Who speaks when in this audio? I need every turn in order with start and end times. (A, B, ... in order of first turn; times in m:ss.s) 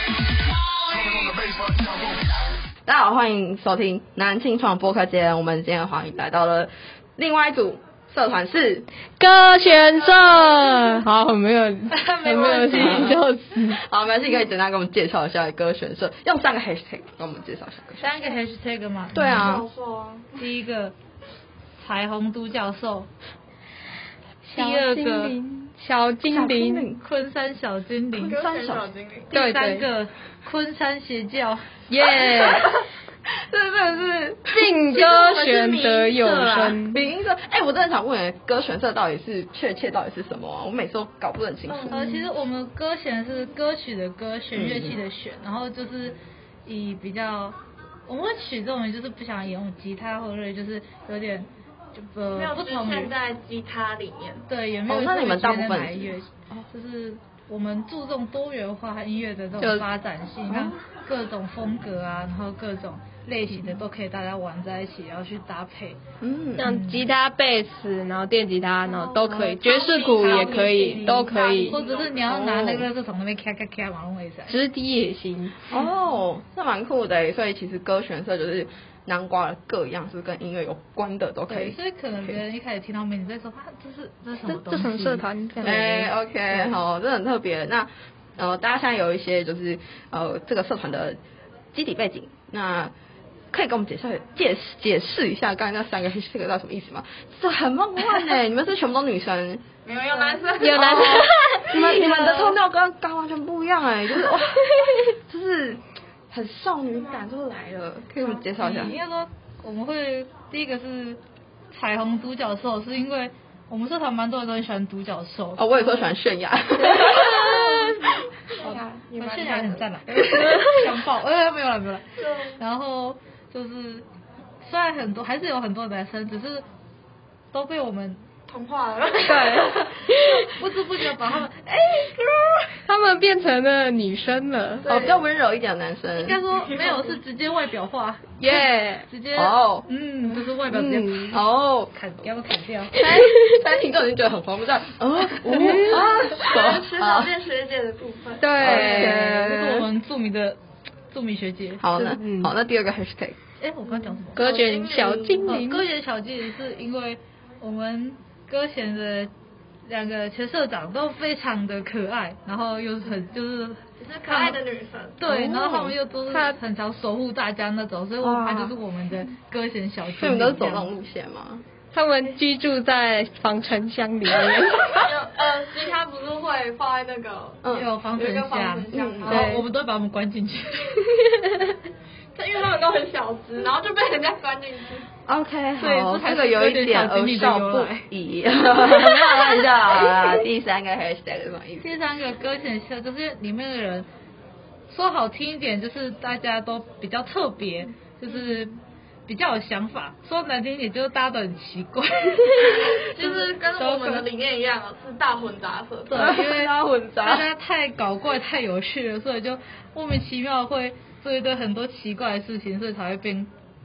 0:02.9-0:08.9 A
0:09.2-0:13.8 B
0:11.9-0:13.2 C
0:12.6-0:18.2 A
0:18.0-0:19.6 C
0:19.1-0:19.7 A
0:19.4-0:20.3 D
0:20.3-0:21.0 C
0:21.8-0:23.1 C
0:24.4-0:26.9 B
0:24.5-0:25.4 C
0:26.3-0:27.0 A
0:27.0-0:28.4 C
0:28.2-0:29.3 D
0:28.4-0:28.9 A
0:29.3-0:31.8 C
0:29.3-0:29.9 B
0:31.9-0:32.7 B
0:32.0-0:32.8 A
0:33.4-0:42.0 A
0:34.5-0:37.0 B
0:41.7-0:42.3 D
0:41.9-0:47.6 C
0:44.5-0:45.0 A
0:48.1-0:53.1 C
0:52.3-0:54.5 D
0:54.5-1:06.0 C
0:54.9-0:56.7 A
1:00.5-1:00.8 A
1:06.2-1:06.7 A
1:06.6-1:11.8 B
1:06.6-1:07.1 C
1:08.9-1:12.3 D
1:11.6-1:14.6 C
1:12.2-1:12.9 A
1:14.5-1:15.6 B
1:15.7-1:22.4 A
1:21.5-1:25.3 C
1:24.5-1:26.1 B
1:25.6-1:31.2 A
1:31.7-1:32.9 A
1:33.5-1:39.6 A
1:39.8-1:42.5 D
1:40.1-1:40.4 C
1:40.6-1:42.3 B
1:40.6-1:49.0 A
1:48.2-1:56.1 C
1:55.6-1:57.7 A
1:57.0-1:58.2 B
1:57.0-1:59.8 D
1:58.6-2:04.1 C
2:00.5-2:00.8 B
2:02.2-2:02.6 D
2:04.6-2:06.6 C
2:07.5-2:08.2 C
2:08.5-2:09.9 D
2:09.2-2:10.5 B
2:10.1-2:12.0 C
2:12.9-2:14.9 B
2:14.8-2:15.2 D
2:14.9-2:16.4 A
2:16.2-2:23.0 C
2:16.5-2:17.2 D
2:18.4-2:19.1 B
2:19.3-2:19.9 A
2:20.4-2:21.3 B
2:21.3-2:21.9 A
2:22.9-2:27.3 A
2:25.5-2:26.1 B
2:26.2-2:28.7 D
2:28.4-2:29.4 B
2:28.6-2:29.9 A
2:28.6-2:30.6 C
2:31.1-2:31.9 C
2:31.8-2:33.4 A
2:32.0-2:32.5 B
2:33.6-2:34.5 C
2:33.9-2:35.6 D
2:34.3-2:35.9 B
2:35.4-2:39.3 C
2:39.9-2:44.6 C
2:44.0-2:45.2 D
2:45.2-2:50.9 C
2:45.2-2:46.0 A
2:46.3-2:46.6 B
2:48.2-2:48.8 A
2:50.1-2:51.6 A
2:51.9-2:55.0 B
2:54.8-2:59.6 D
2:57.6-2:57.9 A
2:57.7-3:01.5 C
2:58.9-2:59.5 A
2:59.3-2:59.6 B
3:02.4-3:05.1 D
3:05.3-3:12.0 A
3:05.8-3:08.1 C
3:11.8-3:14.1 C
3:14.9-3:18.8 C
3:18.3-3:18.6 D
3:19.3-3:24.3 C
3:22.5-3:26.3 D
3:26.1-3:33.5 C
3:26.2-3:27.5 A